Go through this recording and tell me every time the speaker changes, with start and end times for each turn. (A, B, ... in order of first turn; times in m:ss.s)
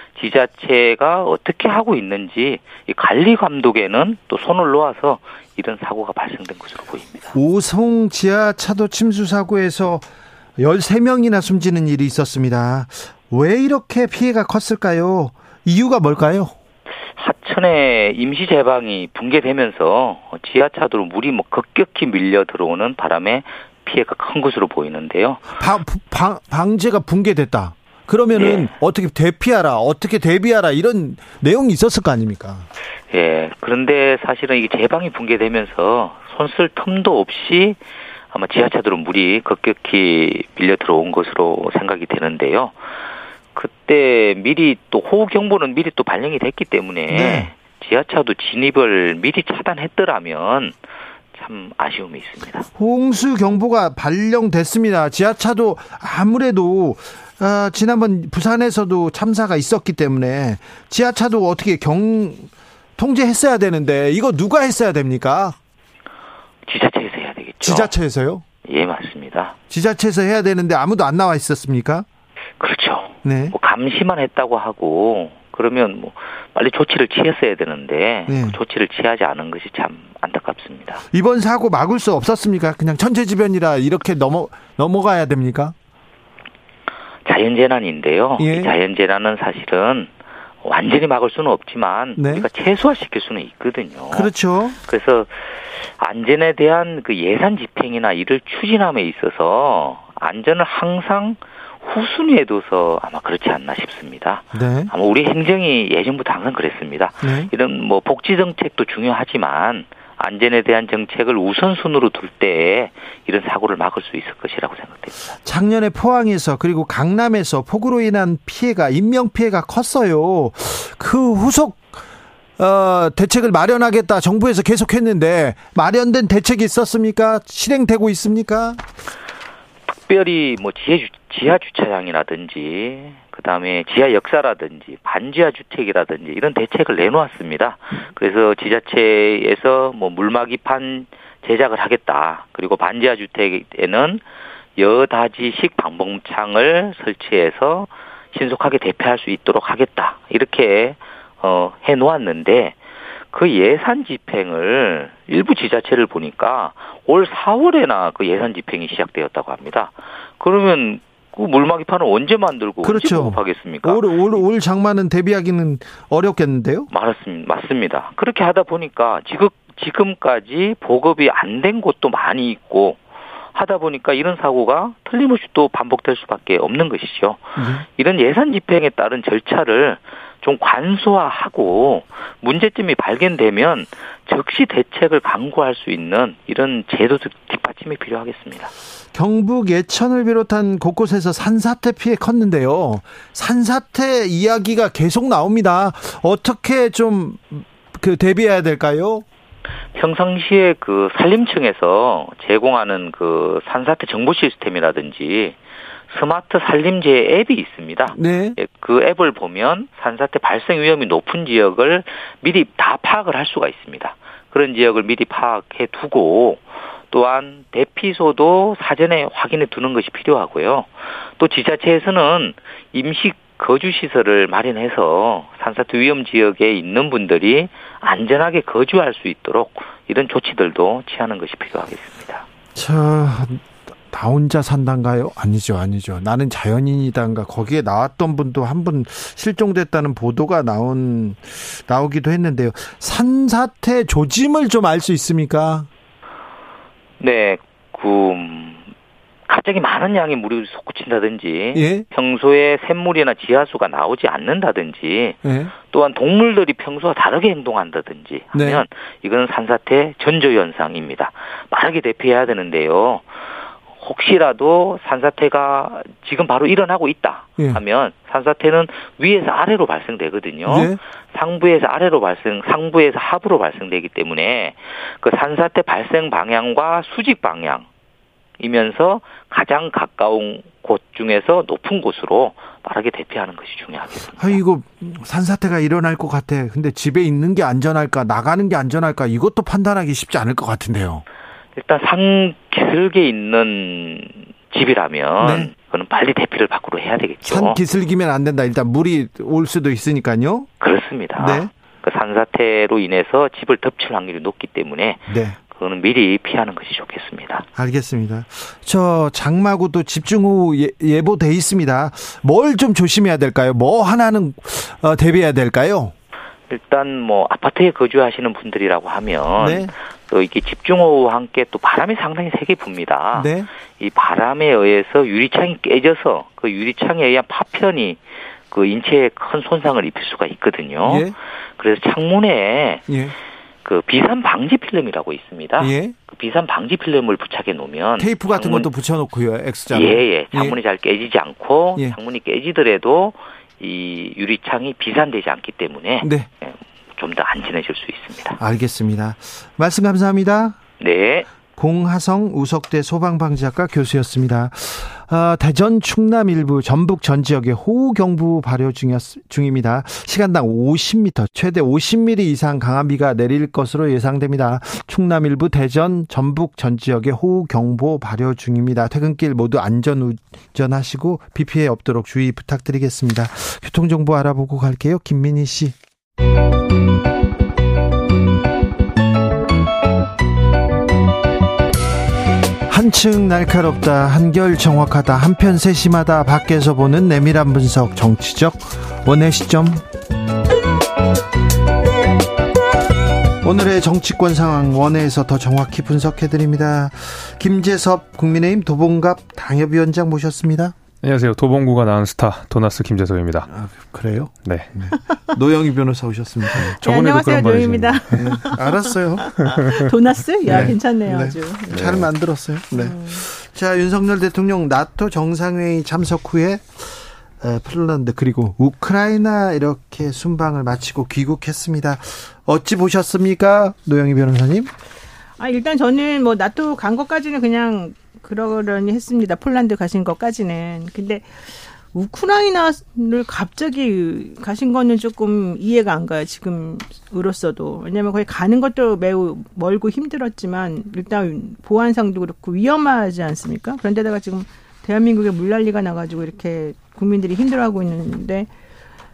0:00.2-0:07.3 A
0:07.3-0:10.1 B
0:10.6-0:16.6 B
0:17.1-0:25.5 A
0:25.5-0:32.7 B
0:28.4-0:28.6 A
0:33.1-0:37.8 A
0:38.3-0:42.8 A
0:43.6-0:50.8 A
0:47.1-0:47.5 B
0:51.4-0:52.7 A
0:52.8-1:05.6 B
1:06.7-1:07.9 A
1:07.6-1:08.4 B
1:08.6-1:09.6 A
1:09.7-1:12.1 B
1:12.6-1:21.0 A
1:13.2-1:13.6 B
1:18.3-1:18.6 B
1:21.1-1:25.7 B
1:27.3-1:30.1 A
1:28.4-1:28.7 B
1:30.6-1:55.3 A
1:32.2-1:32.5 B
1:34.1-1:34.8 B
1:44.5-1:44.9 B
1:47.2-1:47.5 B
1:55.4-2:02.0 B
2:02.6-2:08.8 B
2:09.9-2:24.2 A
2:24.8-2:32.8 A
2:33.3-2:44.4 A
2:42.8-2:46.9 B
2:46.9-2:53.0 A
2:53.5-3:08.7 A
2:57.6-2:57.8 B
3:09.1-3:19.3 B
3:20.0-3:25.6 A
3:26.1-3:52.4 A
3:28.1-3:28.6 B
3:52.8-4:05.9 B
4:07.2-4:08.9 A
4:09.5-4:23.3 A
4:11.8-4:12.0 B
4:15.4-4:15.7 B
4:18.5-4:18.8 B
4:24.0-4:37.9 A
4:30.7-4:31.0 B
4:38.6-4:44.6 A
4:44.4-4:51.2 B
4:51.8-4:57.8 A
4:55.4-4:55.7 B
4:57.4-5:00.7 B
5:00.8-5:07.7 A
5:01.4-5:01.7 B
5:05.3-5:05.6 B
5:07.8-5:16.1 B
5:16.7-5:33.1 A
5:19.6-5:19.9 B
5:23.4-5:23.7 B
5:31.0-5:31.4 B
5:33.1-5:33.3 B
5:33.8-5:38.9 A
5:35.8-5:36.2 B
5:38.2-5:40.8 B
5:39.9-5:48.6 A
5:46.2-5:46.5 B
5:48.6-5:50.8 B
5:51.0-5:51.5 A
5:51.7-6:16.0 B
6:22.9-6:30.0 B
6:33.6-6:41.0 B
6:41.2-6:43.7 C
6:43.7-6:46.9 B
6:44.6-6:44.9 C
6:46.8-6:49.0 D
6:47.0-6:48.4 C
6:48.3-6:49.8 B
6:49.6-6:52.3 D
6:50.7-7:04.9 B
6:52.9-6:53.4 D
7:05.6-7:11.5 D
7:12.1-7:28.7 D